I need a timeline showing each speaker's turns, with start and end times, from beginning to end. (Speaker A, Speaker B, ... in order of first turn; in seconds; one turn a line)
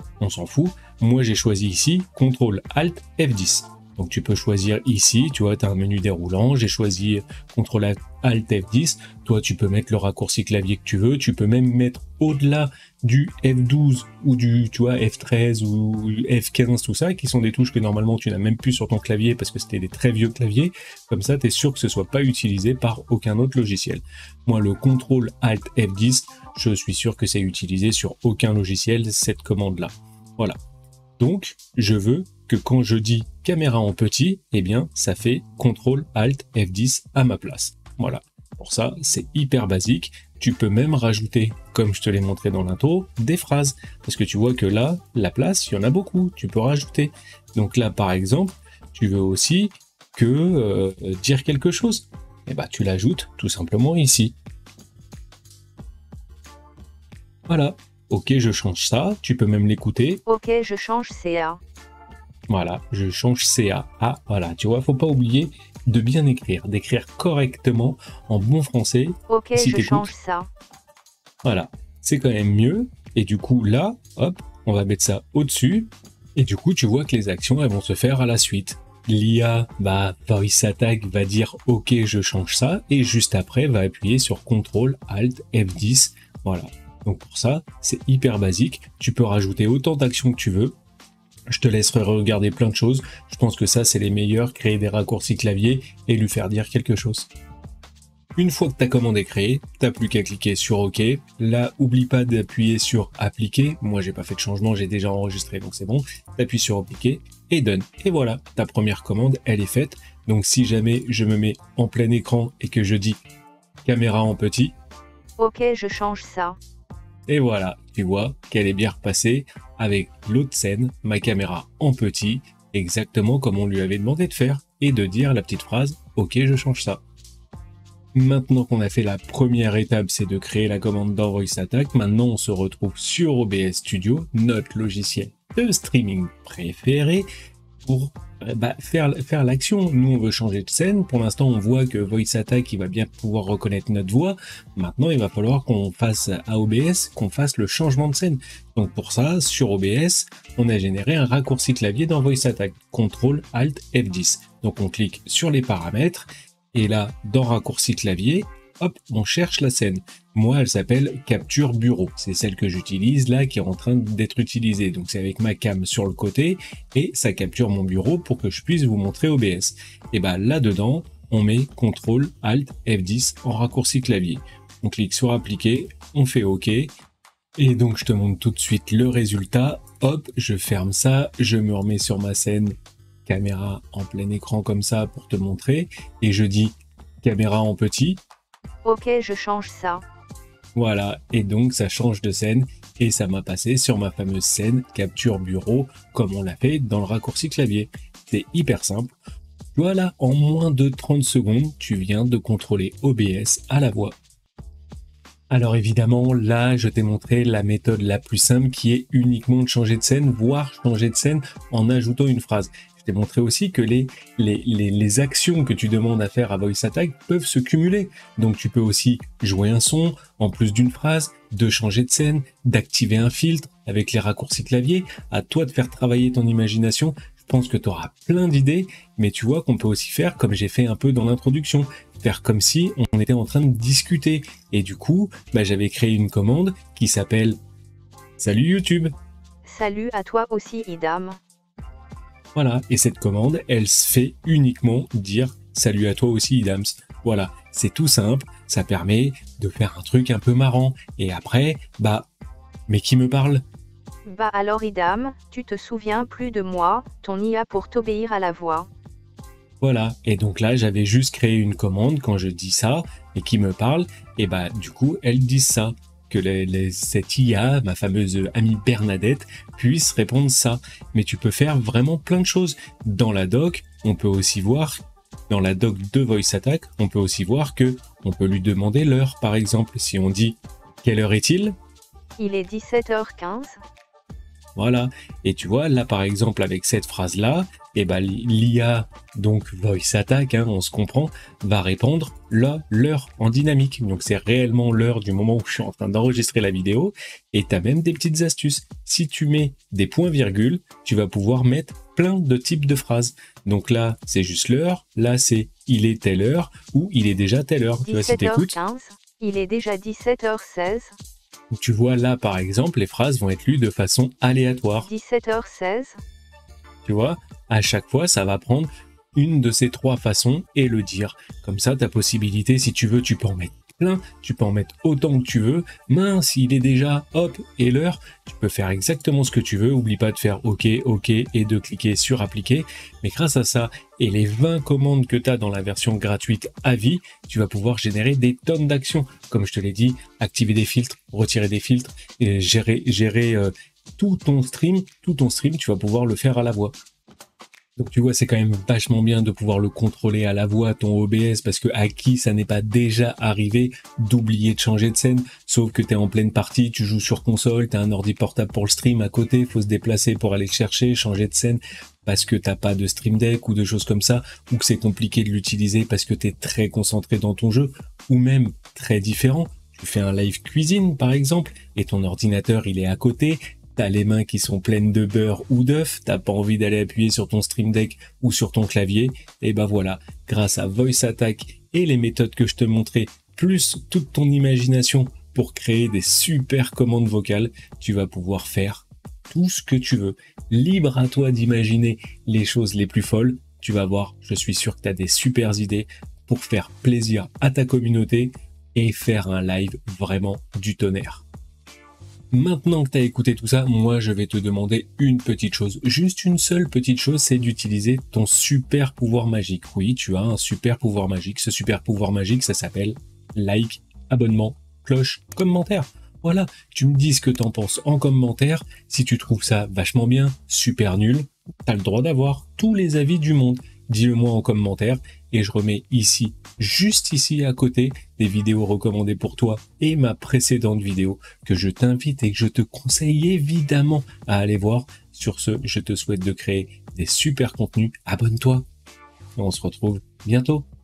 Speaker A: 0.2-30.6
Speaker A: 31.2-54.4
Speaker A: 57.5-60.2
Speaker B: 60.2-61.6
Speaker A: 62.5-70.1
Speaker B: 69.3-70.5
Speaker A: 71.4-90.7
Speaker A: 91.5-97.3
Speaker A: 98.3-113.2
Speaker A: 113.8-114.7
Speaker B: 115.4-116.6
Speaker A: 117.3-127.0
Speaker A: 128.1-137.3
Speaker A: 137.8-176.9
Speaker A: 177.6-182.7
Speaker A: 183.2-188.2
Speaker B: 188.8-190.0
Speaker A: 190.7-199.2
Speaker A: 199.7-204.1
Speaker A: 205.5-237.6
Speaker A: 238.4-239.1
Speaker B: 239.7-241.4
Speaker A: 242.5-252.3
Speaker A: 252.9-253.6
Speaker B: 254.2-258.9
Speaker A: 259.8-275.0
Speaker A: 275.5-281.7
Speaker B: 282.4-283.8
Speaker A: 284.8-308.8
Speaker B: 308.1-311.1
Speaker A: 311.7-315.1
Speaker B: 315.0-316.2
Speaker A: 317.0-346.9
Speaker A: 348.0-401.4
Speaker A: 402.5-438.8
Speaker A: 439.6-440.9